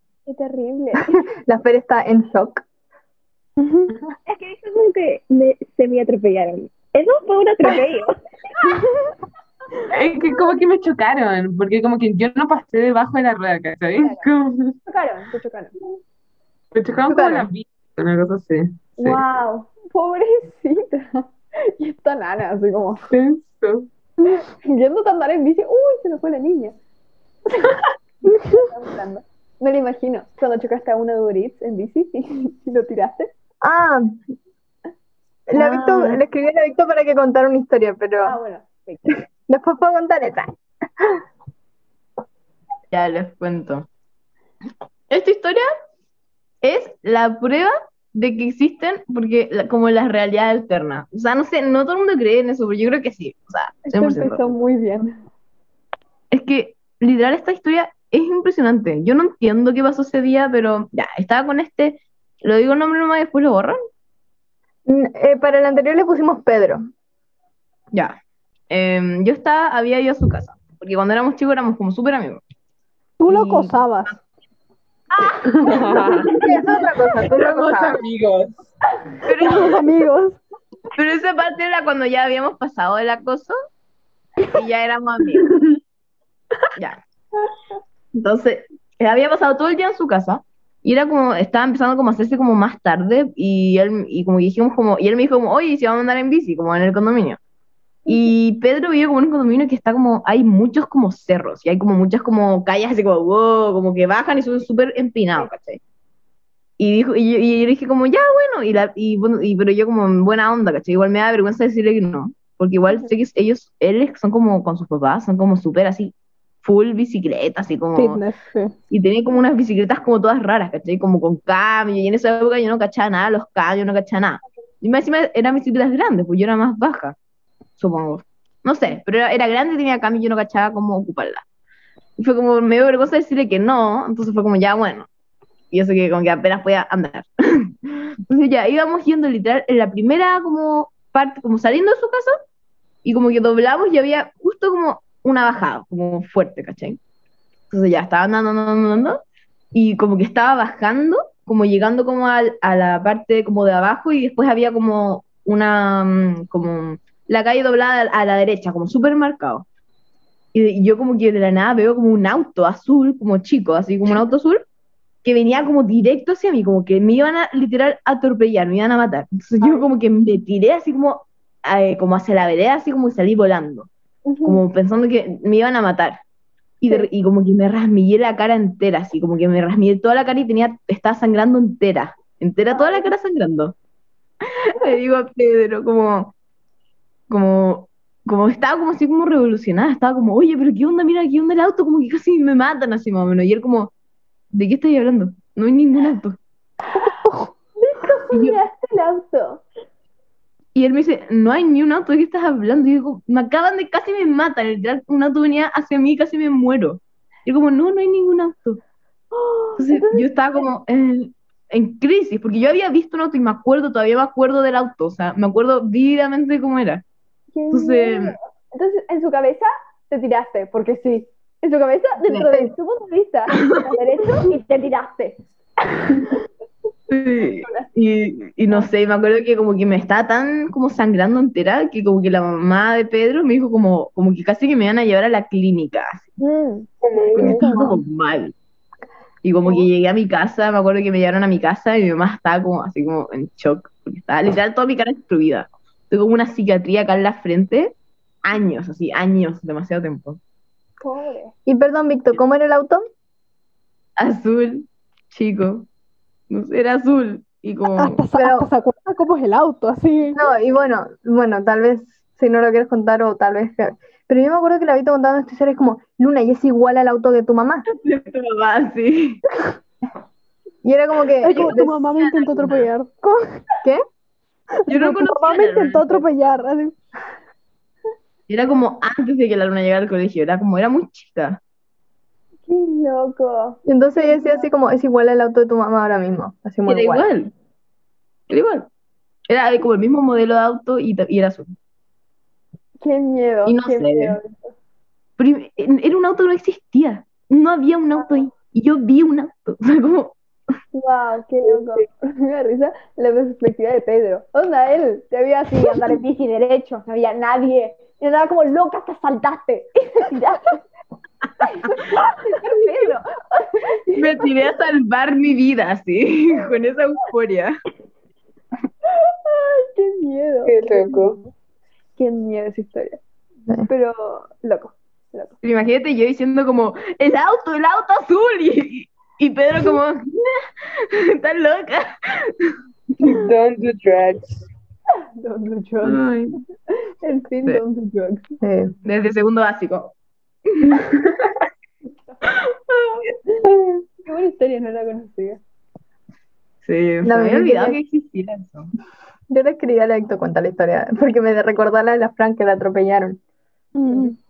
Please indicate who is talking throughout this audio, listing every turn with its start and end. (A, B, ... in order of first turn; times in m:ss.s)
0:00.3-0:01.2 A
0:01.0-0:02.6 B
0:03.6-0:03.9 C
0:04.3-0:08.1 D
0:09.9-0:14.8 E
0:14.0-0:14.3 A
0:14.9-0:15.8 A
0:16.7-0:19.2 E
0:17.1-0:17.5 B
0:19.0-0:23.1 A
0:23.1-0:23.9 E
0:24.3-0:26.8 A
0:27.5-0:33.3 A
0:33.6-0:34.2 B
0:35.5-0:38.4 B
0:35.6-0:36.2 F
0:38.2-0:39.1 A
0:39.4-0:41.2 B
0:42.9-0:43.9 F
0:45.1-0:45.7 F
0:46.6-0:54.4 F
0:53.9-0:55.2 A
0:56.3-1:03.8 F
1:04.9-1:06.8 B
1:07.9-1:08.2 F
1:08.7-1:12.4 F
1:13.2-1:14.2 C
1:13.3-1:13.8 F
1:15.1-1:16.5 A
1:15.7-1:18.6 E
1:16.2-1:18.0 B
1:19.1-1:19.6 A
1:19.3-1:19.9 F
1:19.4-1:20.4 C
1:21.0-1:23.6 F
1:24.5-1:25.6 F
1:28.2-1:37.4 F
1:38.1-1:38.3 A
1:38.1-1:45.8 F
1:46.8-1:56.1 F
1:56.6-1:58.2 F
1:58.0-1:58.7 C
1:58.9-2:07.2 F
2:07.8-2:11.4 F
2:12.2-2:15.1 F
2:15.7-2:17.7 F
2:18.3-2:22.4 F
2:23.0-2:27.0 F
2:27.7-2:29.2 F
2:29.7-2:39.6 F
2:40.5-2:44.6 F
2:45.2-2:53.9 F
2:49.6-2:49.9 A
2:54.3-2:54.6 A
2:54.4-2:56.2 F
2:56.8-3:03.7 F
3:02.7-3:03.1 A
3:04.7-3:06.3 F
3:07.3-3:13.9 F
3:14.5-3:16.4 F
3:17.2-3:17.5 C
3:17.8-3:19.6 A
3:18.3-3:18.6 F
3:20.8-3:28.8 F
3:29.3-3:30.7 A
3:29.8-3:37.0 F
3:37.5-3:46.4 A
3:37.7-3:38.4 F
3:42.3-3:42.7 B
3:47.1-3:56.3 F
3:47.6-3:47.9 A
3:56.4-3:56.9 A
3:57.0-3:57.7 E
3:57.4-3:57.9 A
3:57.4-3:58.5 F
3:59.4-4:10.4 F
4:11.0-4:11.5 A
4:11.7-4:13.0 B
4:14.2-4:15.9 F
4:16.5-4:18.2 F
4:18.0-4:20.4 C
4:18.4-4:18.7 B
4:20.3-4:27.8 B
4:27.9-4:29.4 F
4:30.8-4:32.0 B
4:31.4-4:32.9 F
4:31.4-4:33.6 C
4:34.8-4:37.0 C
4:34.9-4:36.3 F
4:38.5-4:41.6 F
4:42.7-4:44.7 A
4:43.9-4:47.3 B
4:46.9-4:47.5 F
4:48.5-4:48.9 F
4:49.5-4:51.7 F
4:53.0-4:54.7 A
4:53.6-4:54.4 F
4:55.4-5:00.4 F
4:58.2-4:58.4 A
5:00.9-5:10.8 A
5:11.6-5:14.6 A
5:14.2-5:17.8 F
5:19.2-5:21.5 A
5:20.7-5:21.4 E
5:22.2-5:23.2 A
5:23.9-5:25.6 A
5:25.6-5:32.8 F
5:33.2-5:34.6 E
5:35.4-5:36.3 A
5:36.0-5:36.6 E
5:37.2-5:38.5 A
5:38.6-5:38.9 B
5:39.0-5:40.1 F
5:41.1-5:41.5 E
5:44.2-5:45.6 A
5:46.8-5:48.9 F
5:47.2-5:48.0 B
5:49.5-5:53.4 B
5:54.0-5:54.4 C